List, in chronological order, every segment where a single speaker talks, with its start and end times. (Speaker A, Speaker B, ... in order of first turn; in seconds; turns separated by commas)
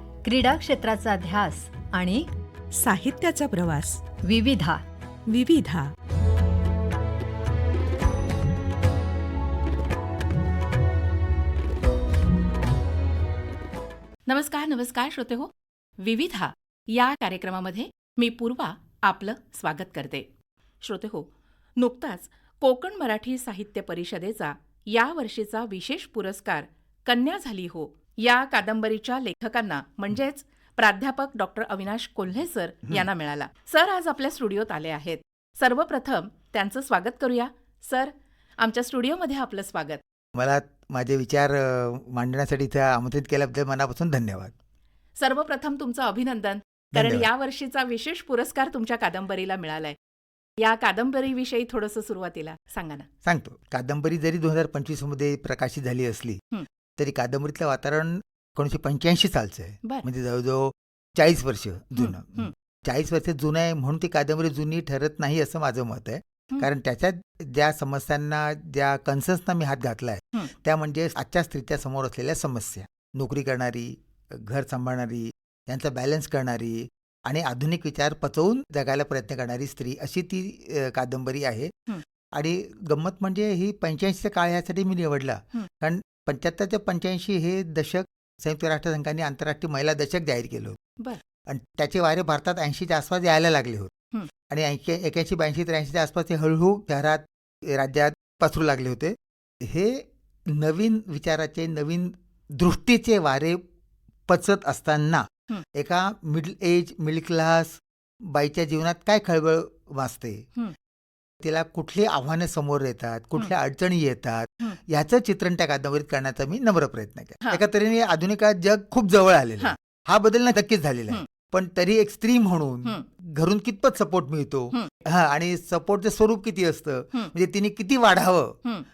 Speaker A: 0.2-2.3, Speaker B: 2.8-4.0, Speaker A: 4.2-4.8, Speaker B: 5.3-5.9, Speaker C: 14.3-20.2, Speaker C: 20.8-40.0, Speaker D: 40.3-44.5, Speaker C: 45.2-50.0, Speaker D: 46.9-47.3, Speaker C: 50.6-53.1, Speaker D: 53.2-56.4, Speaker D: 57.0-103.6, Speaker C: 62.0-62.5, Speaker D: 104.3-110.5, Speaker D: 111.4-128.6